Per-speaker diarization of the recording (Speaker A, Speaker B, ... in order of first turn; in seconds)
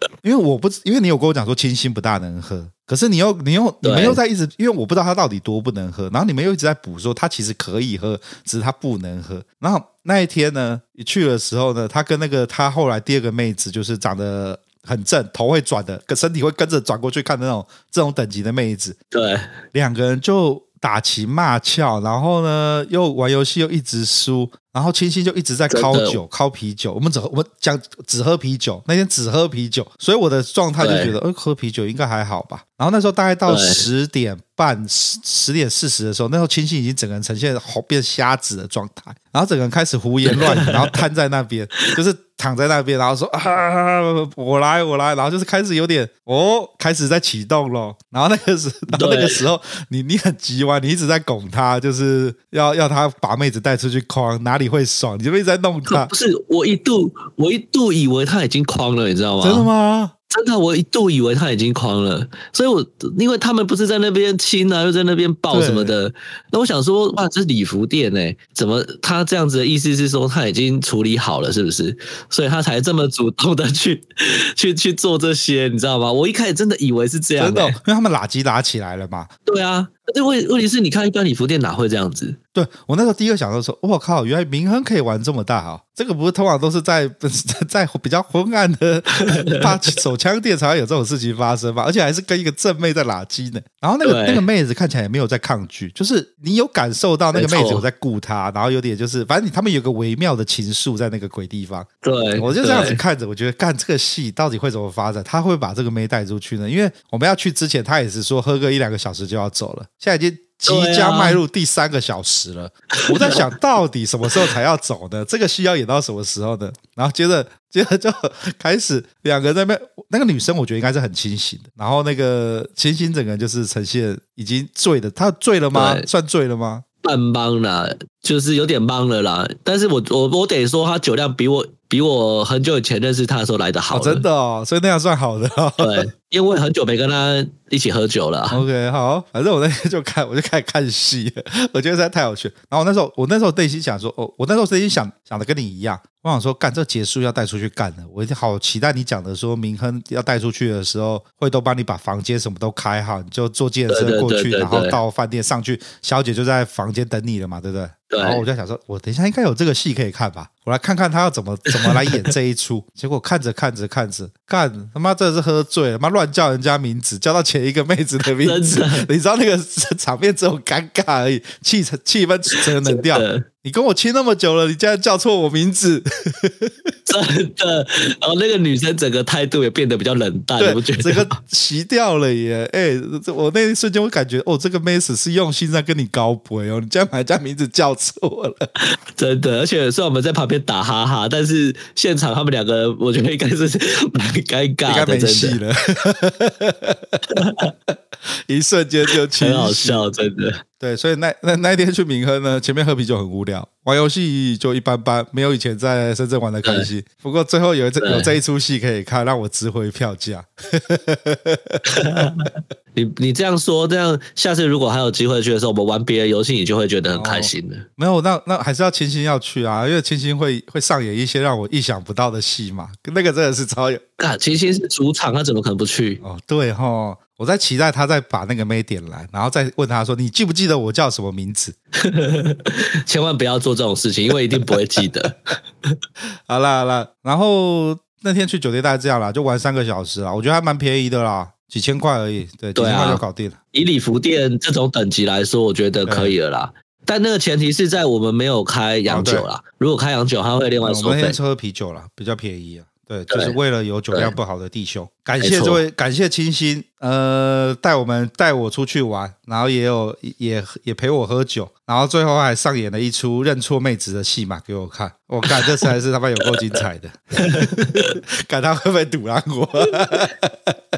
Speaker A: 0.2-19.0, 19.7-56.1, 59.4-60.1, 65.5-65.9, 77.4-79.3, 82.5-126.8, 133.9-136.1, 138.5-176.9, 180.6-188.7, 194.9-197.2, 198.5-200.1, 200.8-212.4, 217.1-224.0, 226.2-231.7, 236.5-243.6, 246.1-246.3, 249.1-249.5, 250.8-270.8
Speaker B: 3.8-4.2, 19.1-19.5, 25.7-26.2, 30.8-31.1, 33.5-33.9, 40.3-41.0, 48.9-49.5, 55.9-59.7, 60.3-77.8, 79.5-82.4, 94.0-94.5, 97.3-97.9, 102.0-103.0, 110.7-111.4, 113.0-113.4, 125.7-126.1, 127.0-134.2, 135.8-138.6, 153.9-155.0, 158.1-158.4, 161.8-162.3, 168.4-169.1, 172.5-173.5, 177.1-181.3, 189.2-195.6, 197.3-197.7, 199.4-200.6, 206.7-206.9, 208.0-208.3, 211.9-217.9, 224.2-226.2, 232.0-236.0, 242.8-251.4, 253.3-253.6, 255.4-255.8, 267.4-268.2